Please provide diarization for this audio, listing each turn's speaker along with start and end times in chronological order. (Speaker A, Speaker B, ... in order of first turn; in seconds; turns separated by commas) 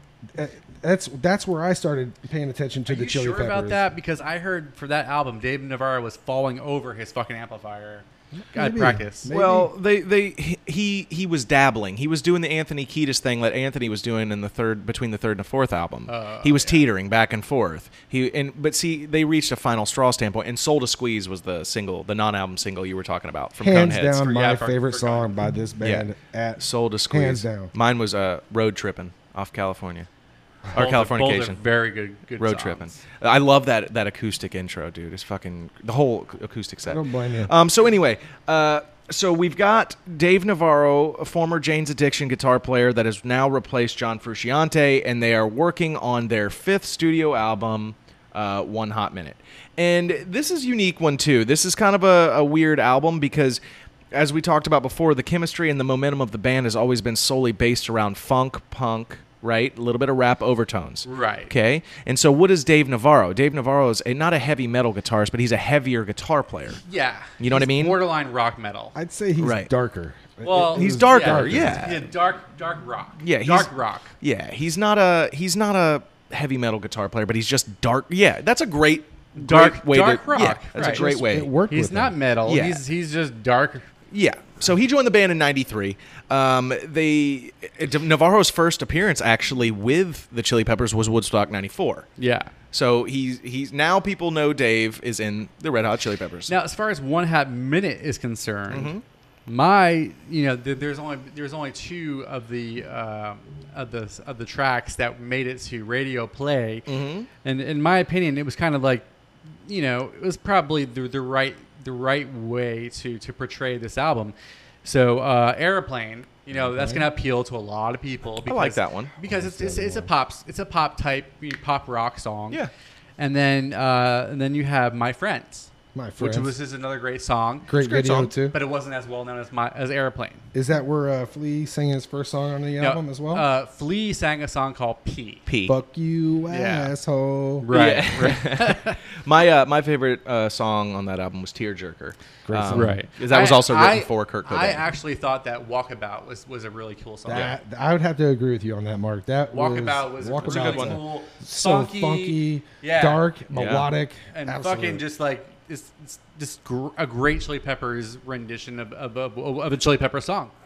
Speaker A: 0.3-3.8, Speaker B: 2.9-9.3, Speaker A: 8.4-9.7, Speaker C: 9.3-24.2, Speaker B: 16.1-16.8, Speaker A: 23.6-27.7, Speaker B: 24.1-25.3, Speaker C: 25.8-30.1, Speaker C: 30.7-31.6, Speaker B: 30.7-33.0, Speaker C: 32.4-53.6, Speaker A: 36.9-37.5, Speaker C: 54.1-66.8, Speaker B: 61.0-61.5, Speaker B: 66.8-69.0, Speaker C: 67.4-68.0, Speaker A: 69.0-71.9, Speaker C: 69.4-69.7, Speaker B: 70.4-74.1, Speaker C: 70.7-72.0, Speaker C: 73.2-81.5, Speaker B: 79.3-81.0, Speaker A: 80.8-82.2, Speaker B: 81.7-83.9, Speaker C: 82.5-82.8, Speaker C: 84.1-92.1, Speaker B: 92.2-92.5, Speaker C: 92.7-96.5, Speaker B: 96.5-98.9, Speaker C: 98.7-99.0, Speaker B: 99.5-106.9, Speaker C: 106.9-107.3, Speaker B: 107.4-109.1, Speaker B: 109.7-122.6, Speaker A: 116.5-117.1, Speaker C: 118.5-119.1, Speaker A: 119.2-120.1, Speaker B: 123.2-127.7, Speaker A: 125.9-126.5, Speaker A: 127.7-128.6, Speaker C: 127.8-128.3, Speaker B: 128.5-130.5, Speaker A: 130.5-133.5, Speaker B: 132.8-135.4, Speaker C: 135.5-135.8, Speaker A: 135.7-137.7, Speaker B: 136.5-136.9, Speaker B: 137.6-139.0, Speaker C: 137.7-144.8, Speaker A: 142.5-143.0, Speaker B: 142.7-147.6, Speaker A: 147.3-155.0, Speaker B: 149.5-153.3, Speaker C: 150.4-151.0, Speaker C: 153.5-153.9, Speaker B: 154.3-160.5